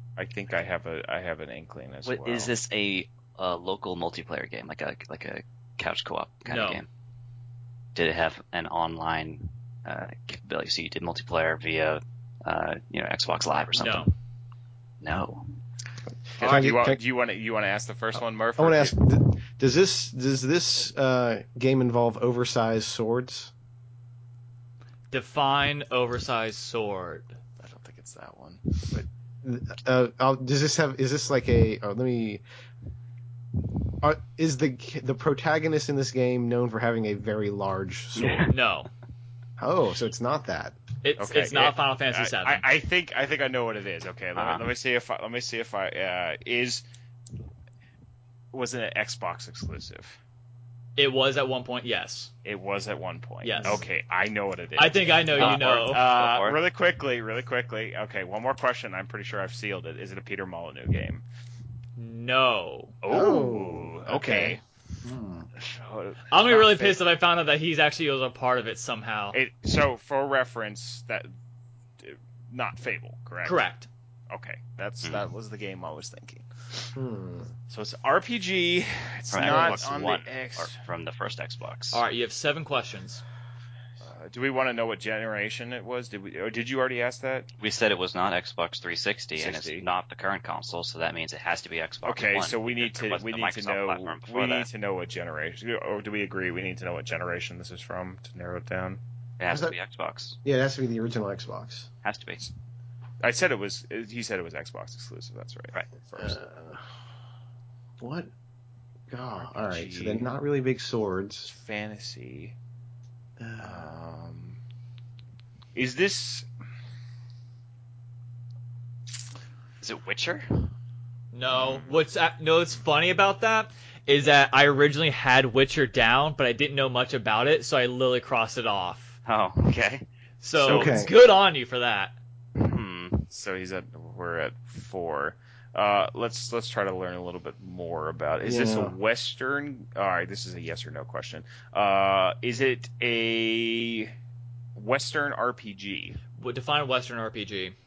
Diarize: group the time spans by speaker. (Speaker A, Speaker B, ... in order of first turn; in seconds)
Speaker A: 0.2-2.5, 16.4-19.0, 27.6-28.6, 41.2-46.8, 48.5-50.2, 52.4-61.2, 63.0-64.6, 65.6-67.0, 69.3-71.3, 72.0-73.6, 74.3-76.9, 77.7-80.7, 84.0-87.5, 89.4-89.8, 92.0-99.0, 103.2-106.4, 109.5-110.3, 111.5-112.5, 113.6-114.6, 115.8-116.5, 121.5-122.0, 133.3-144.1, 144.8-146.2
Speaker B: 2.0-6.9, 8.0-14.1, 15.0-15.5, 38.2-38.5, 44.4-44.7, 55.4-56.6, 75.0-75.3, 79.3-82.0, 87.6-94.7, 99.4-100.4, 102.0-102.5, 119.8-120.7, 129.3-130.1, 132.6-133.3
Speaker C: 6.5-6.8, 13.7-14.1, 25.1-27.4, 38.5-38.9, 41.0-42.6, 51.0-52.3, 53.4-53.8, 54.8-56.0, 62.0-63.0, 66.3-69.4, 73.4-73.9, 81.9-83.2, 121.3-129.2, 130.4-132.2, 146.4-147.8
Speaker D: 16.3-17.0, 18.6-23.5, 28.9-32.4, 34.0-38.5, 39.6-40.8, 63.1-65.5, 77.0-77.5, 79.4-79.8, 99.5-99.8, 100.4-101.9, 106.2-106.9, 108.0-108.3, 109.1-111.5, 113.4-113.9, 130.6-131.1, 138.4-138.9